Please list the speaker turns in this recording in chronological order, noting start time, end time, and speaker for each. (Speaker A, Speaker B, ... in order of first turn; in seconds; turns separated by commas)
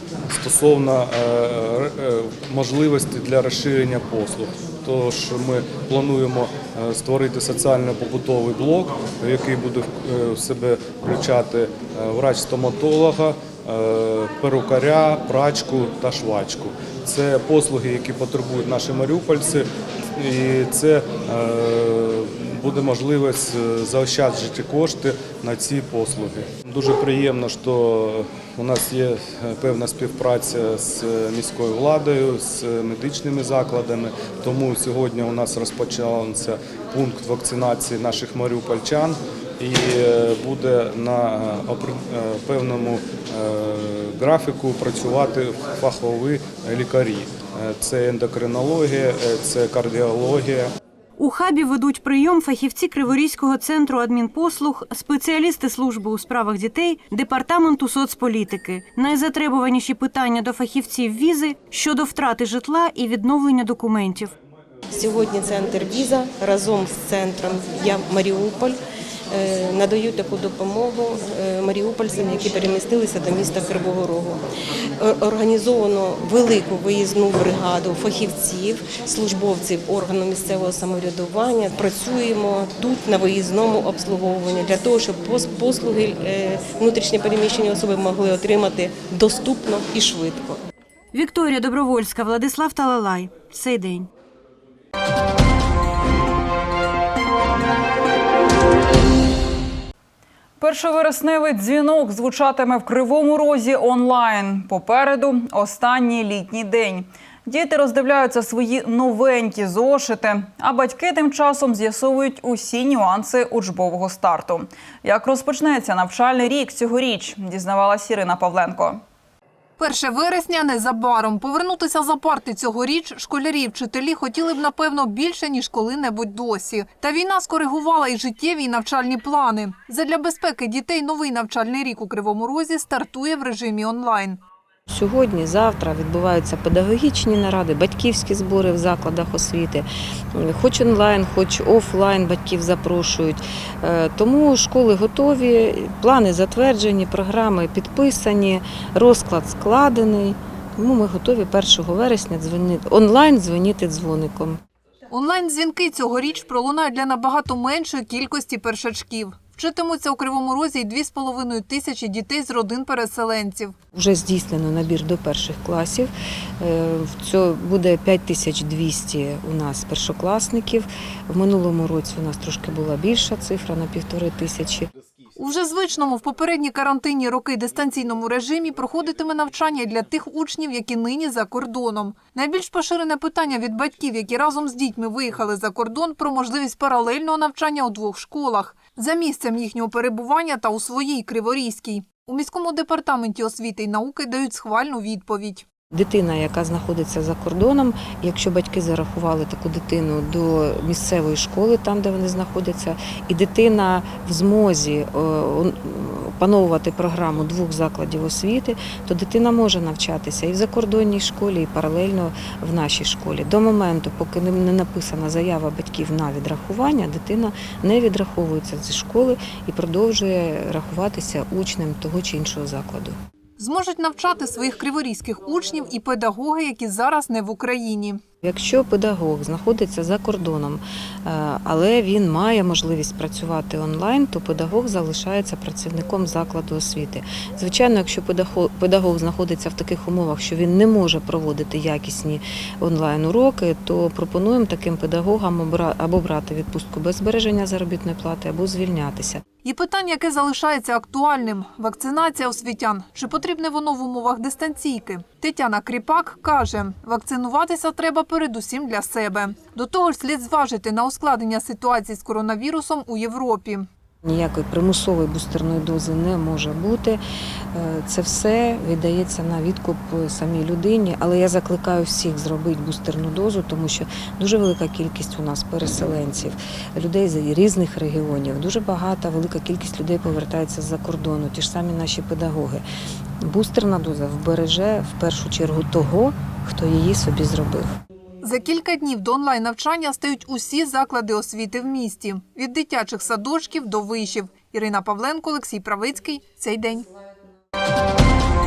Speaker A: 0.3-50.7, Speaker B: 51.2-64.3, Speaker C: 64.9-68.8, Speaker C: 69.3-74.4, Speaker C: 75.0-90.6, Speaker B: 91.1-94.1, Speaker D: 100.6-119.0, Speaker E: 119.8-134.4, Speaker F: 134.9-154.6, Speaker E: 155.1-163.7, Speaker F: 163.9-174.9, Speaker E: 175.3-195.6, Speaker F: 195.9-223.2, Speaker E: 223.6-228.2, Speaker F: 228.4-249.4, Speaker E: 249.6-263.9, Speaker F: 264.2-267.2, Speaker F: 267.7-282.8, Speaker F: 283.4-287.9, Speaker E: 288.4-297.1